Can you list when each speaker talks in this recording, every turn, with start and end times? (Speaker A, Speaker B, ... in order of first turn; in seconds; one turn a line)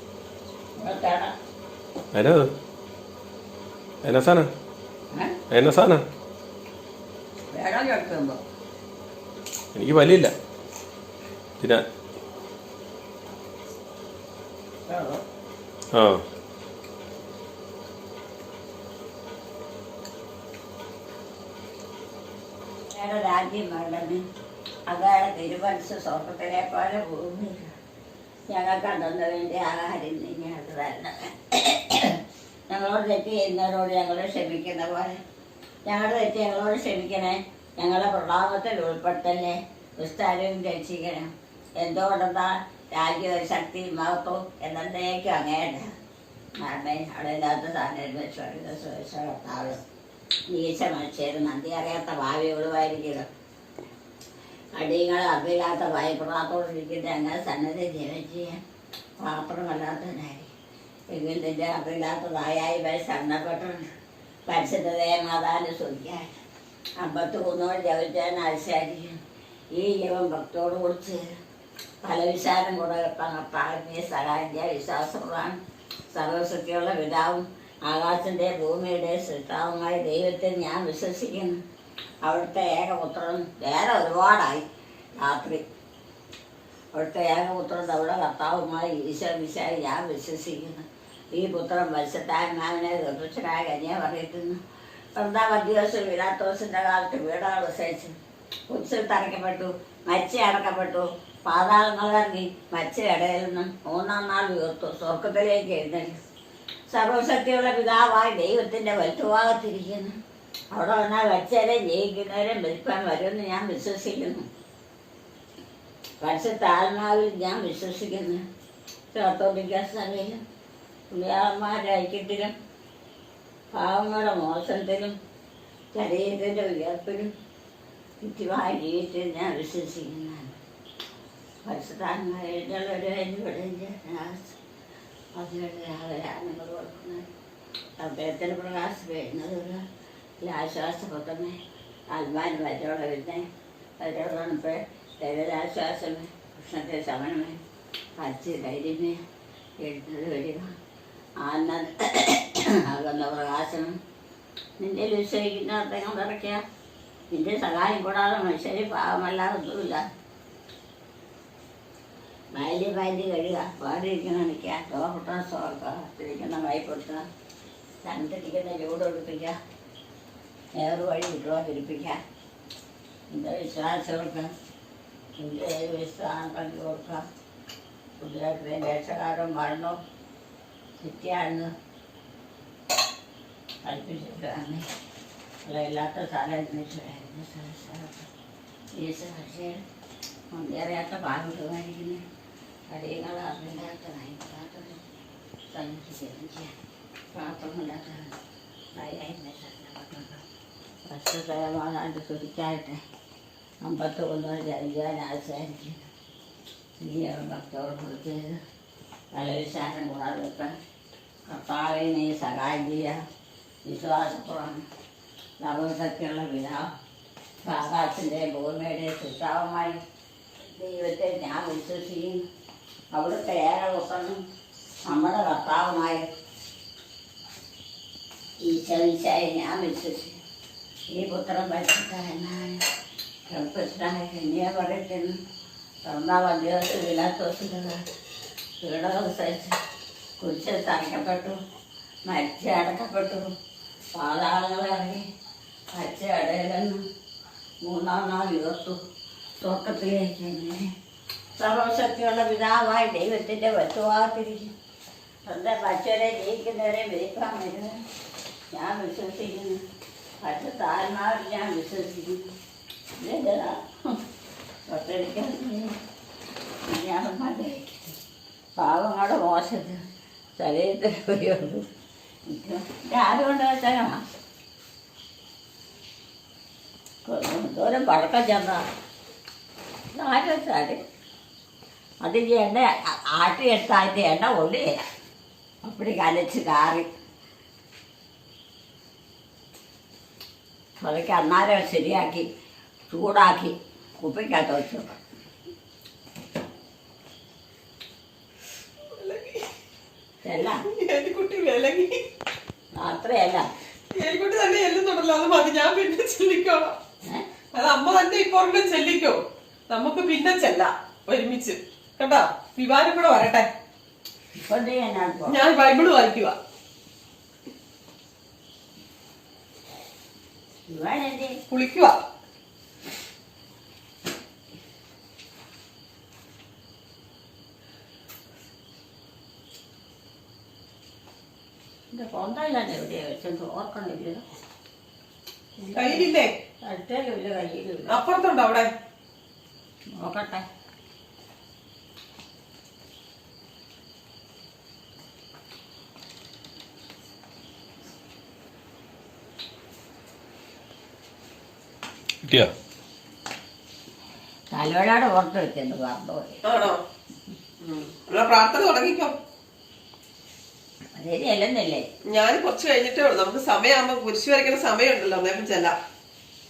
Speaker A: 0.8-1.3
Speaker B: 2.1-2.5
Speaker B: 4.0-4.5
Speaker B: 5.5-6.0
Speaker A: 7.5-8.4
Speaker B: 9.7-10.3
Speaker A: 14.9-15.2
Speaker B: 15.9-16.2
Speaker A: 22.9-24.2
Speaker A: 24.9-27.7
Speaker A: 28.5-35.2
Speaker A: 35.9-45.9
Speaker A: 46.6-49.8
Speaker A: 50.5-53.3
Speaker A: 54.8-58.6
Speaker A: 59.2-60.5
Speaker A: 61.1-63.9
Speaker A: 64.5-66.3
Speaker A: 67.0-69.2
Speaker A: 69.7-71.3
Speaker A: 72.0-75.6
Speaker A: 76.1-81.6
Speaker A: 82.2-84.6
Speaker A: 85.2-85.6
Speaker A: 86.9-94.6
Speaker A: 95.2-98.1
Speaker A: 98.7-106.2
Speaker A: 106.9-110.2
Speaker A: 110.7-114.5
Speaker A: 116.2-118.4
Speaker A: 119.1-120.4
Speaker A: 121.1-122.5
Speaker A: 123.7-125.2
Speaker A: 125.9-127.3
Speaker A: 128.2-130.6
Speaker A: 131.6-134.6
Speaker A: 135.3-137.3
Speaker A: 138.0-139.8
Speaker A: 140.4-141.6
Speaker A: 142.1-143.5
Speaker A: 144.0-147.6
Speaker A: 148.2-149.2
Speaker A: 149.8-150.7
Speaker A: 151.4-153.9
Speaker A: 154.8-156.6
Speaker A: 157.3-160.0
Speaker A: 162.5-167.2
Speaker A: 168.0-169.5
Speaker A: 170.8-172.2
Speaker A: 173.3-174.5
Speaker A: 175.4-177.2
Speaker A: 178.2-180.0
Speaker A: 181.0-181.7
Speaker A: 183.8-184.9
Speaker A: 185.6-188.3
Speaker A: 188.9-189.8
Speaker A: 190.5-192.2
Speaker A: 192.9-195.0
Speaker A: 195.7-196.7
Speaker A: 197.3-198.4
Speaker A: 198.9-200.4
Speaker A: 201.1-203.0
Speaker A: 203.8-206.0
Speaker A: 207.0-208.6
Speaker A: 209.3-210.7
Speaker A: 211.5-213.2
Speaker A: 213.8-214.8
Speaker A: 215.6-216.9
Speaker A: 217.6-220.0
Speaker A: 220.7-222.4
Speaker A: 223.1-224.4
Speaker A: 225.1-226.2
Speaker A: 228.6-230.4
Speaker A: 231.1-232.8
Speaker A: 233.5-235.4
Speaker A: 236.0-238.0
Speaker A: 238.8-239.8
Speaker A: 240.4-241.6
Speaker A: 242.2-243.5
Speaker A: 244.1-245.2
Speaker A: 245.9-247.0
Speaker A: 247.8-249.0
Speaker A: 249.6-250.9
Speaker A: 251.6-254.7
Speaker A: 255.4-258.0
Speaker A: 258.7-259.8
Speaker A: 260.4-262.4
Speaker A: 263.2-264.2
Speaker A: 264.9-266.0
Speaker A: 266.8-268.2
Speaker A: 268.8-270.0
Speaker A: 270.6-271.9
Speaker A: 272.4-274.2
Speaker A: 277.2-278.8
Speaker A: 280.1-281.0
Speaker A: 282.2-285.1
Speaker A: 285.8-287.1
Speaker A: 291.0-292.5
Speaker A: 293.1-295.1
Speaker C: 299.0-299.7
Speaker A: 300.4-300.8
Speaker C: 300.9-302.2
Speaker A: 302.9-303.7
Speaker C: 304.1-307.0
Speaker C: 307.7-313.7
Speaker A: 314.6-315.6
Speaker C: 315.5-316.6
Speaker A: 320.9-321.6
Speaker C: 321.7-322.2
Speaker A: 332.1-334.4
Speaker A: 335.8-336.3
Speaker C: 335.9-336.5
Speaker A: 336.8-338.1
Speaker C: 338.1-338.9
Speaker A: 340.2-340.6
Speaker B: 352.4-352.7
Speaker A: 354.7-356.6
Speaker C: 356.6-357.0
Speaker C: 357.8-359.4
Speaker A: 361.1-362.0
Speaker C: 362.3-365.9